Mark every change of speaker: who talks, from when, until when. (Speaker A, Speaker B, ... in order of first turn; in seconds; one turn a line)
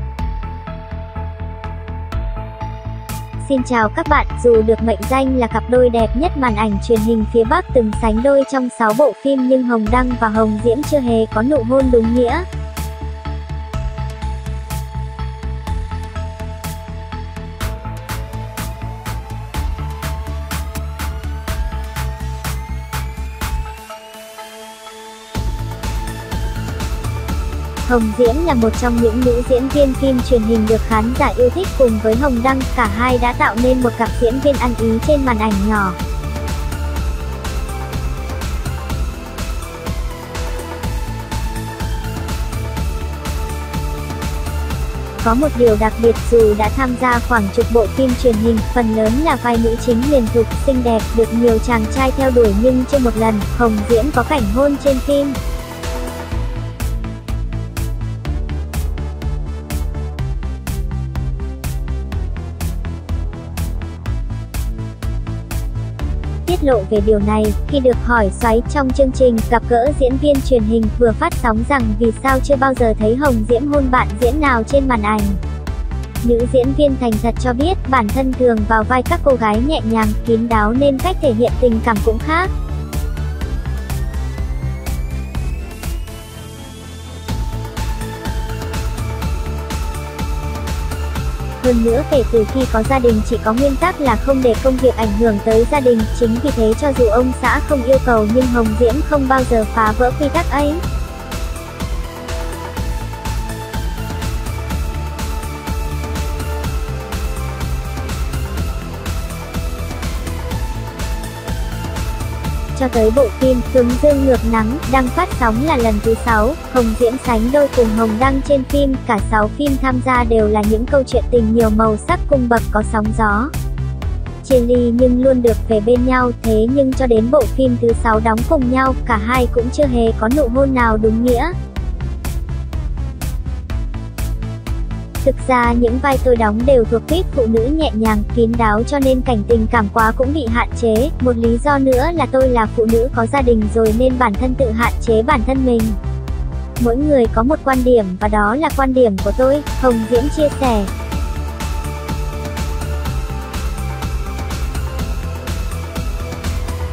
Speaker A: 3.4-12.5
Speaker A: 27.9-36.0
Speaker A: 45.2-55.4
Speaker A: 66.5-75.4
Speaker A: 76.2-82.5
Speaker A: 91.6-100.8
Speaker A: 112.8-123.5
Speaker A: 124.4-131.5
Speaker A: 135.2-146.0
Speaker A: 146.8-150.9